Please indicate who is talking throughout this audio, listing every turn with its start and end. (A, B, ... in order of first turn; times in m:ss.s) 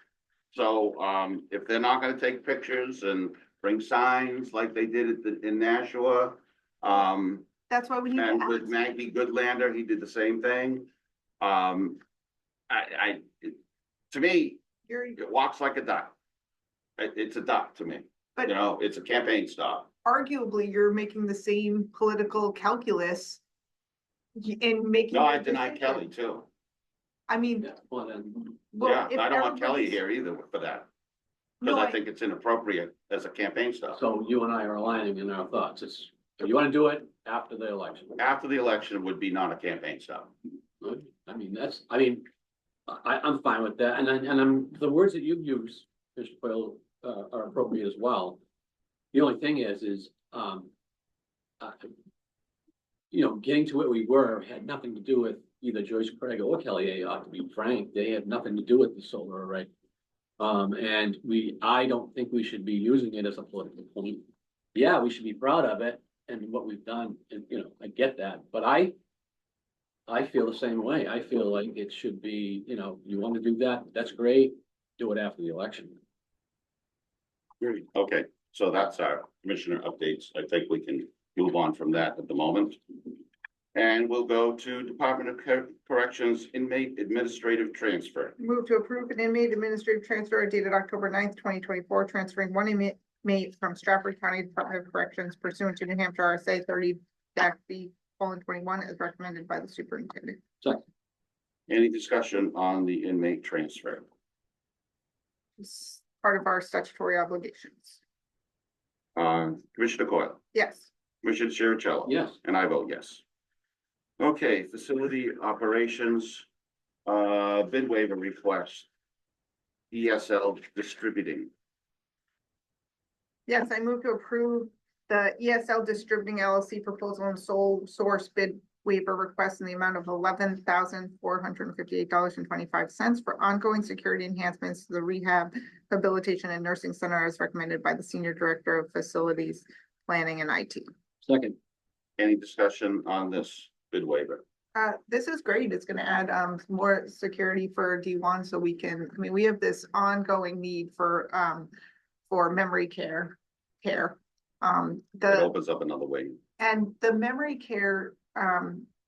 0:00.5-0:07.5 A
0:07.7-0:08.7 B
0:08.2-0:10.9 A
0:11.4-0:12.0 A
0:12.7-0:13.6 A
0:14.1-0:14.6 A
0:15.2-0:16.2 A
0:17.0-0:19.9 A
0:20.1-0:23.4 B
0:24.4-0:26.0 B
0:25.1-0:26.5 A
0:27.3-0:27.6 B
0:27.6-0:28.6 C
0:28.8-0:30.9 A
0:28.9-0:29.9 B
0:31.6-0:34.0 A
0:33.9-0:38.2 C
0:38.2-0:40.3 A
0:40.8-0:42.3 C
0:42.9-0:48.4 C
0:49.1-0:50.7 C
0:51.6-0:51.9 C
0:53.1-0:59.7 C
1:00.4-1:09.0 C
1:10.1-1:16.0 C
1:17.6-1:22.8 A
1:23.7-1:28.4 A
1:28.4-1:40.4 B
1:41.7-1:44.1 A
1:45.6-1:48.0 B
1:49.2-1:50.4 A
1:50.5-1:50.8 B
1:51.2-1:53.2 A
1:52.0-1:52.4 C
1:54.2-1:56.5 A
1:57.1-1:58.9 A
1:59.9-2:01.5 A
2:03.5-2:20.9 B
2:21.2-2:21.6 C
2:22.2-2:24.4 A
2:24.8-2:31.7 B
2:32.3-2:35.5 B
2:35.2-2:36.4 A
2:36.6-2:38.8 B